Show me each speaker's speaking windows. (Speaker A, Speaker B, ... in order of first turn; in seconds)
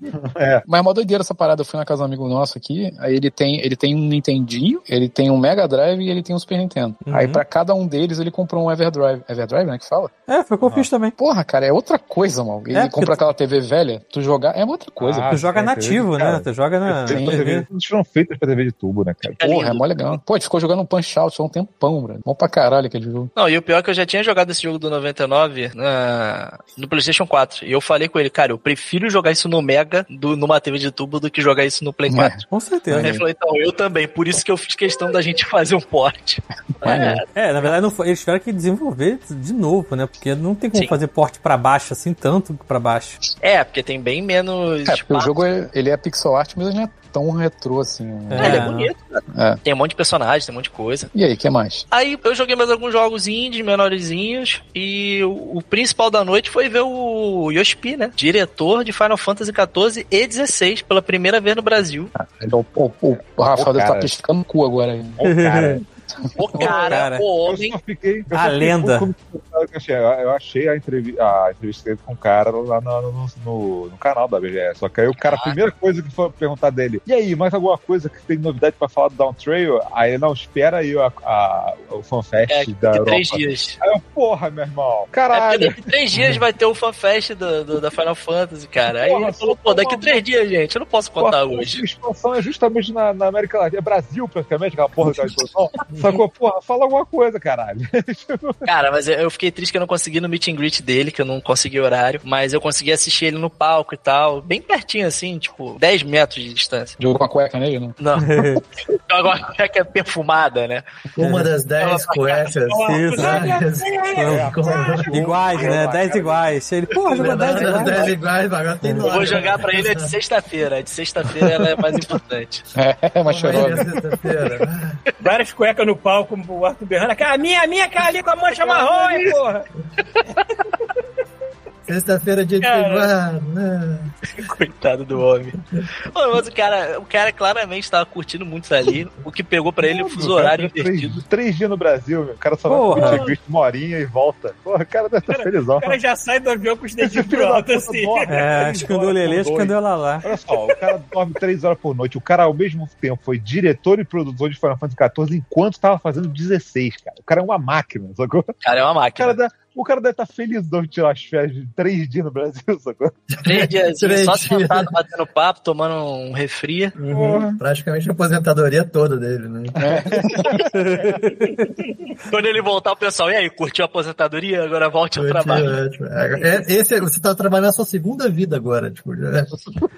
Speaker A: 0.1-0.6, 10.6-10.9, 15.0-19.4, 63.4-64.1, 65.2-65.8, 67.4-85.9, 88.9-90.2, 91.2-98.7, 114.2-116.5, 139.8-146.0, 147.0-158.5, 159.2-163.2, 167.1-167.6, 170.1-170.4
Speaker B: 0.7-10.1, 11.2-15.4, 17.1-17.4, 19.4-23.3, 32.1-33.2, 36.8-37.2, 44.9-48.7, 49.3-49.6, 51.1-51.9, 62.1-65.2, 66.2-66.7, 107.0-107.9, 122.8-123.9, 169.8-170.6
Speaker C: 7.0-7.4, 10.3-11.1, 12.7-13.2, 15.3-17.7, 32.5-33.2, 37.3-43.2, 48.3-48.9, 65.2-65.8, 66.5-67.2, 68.3-69.1, 108.2-108.6, 111.2-111.5, 112.8-113.5, 114.2-118.1, 118.8-119.3, 142.7-143.2, 148.3-150.2, 170.7-171.7
Speaker D: 19.4-20.2, 23.3-37.2, 43.4-45.4, 48.4-51.1, 51.9-62.1, 66.4-67.8, 75.2-75.6, 82.5-83.8, 85.3-91.8, 98.6-107.0, 108.0-110.8, 111.8-112.5, 119.0-122.6, 132.6-133.1, 134.4-135.6, 136.1-141.2, 158.6-159.4, 163.4-166.9, 172.3-175.8
Speaker E: 111.2-115.1, 117.1-120.1, 123.2-125.0, 128.7-129.0, 131.8-134.1, 163.3-164.9, 167.6-170.2, 175.2-179.7
Speaker F: 112.6-115.1, 117.4-118.0, 125.2-129.7, 142.9-143.4, 145.2-148.9, 150.5-150.9, 167.0-167.5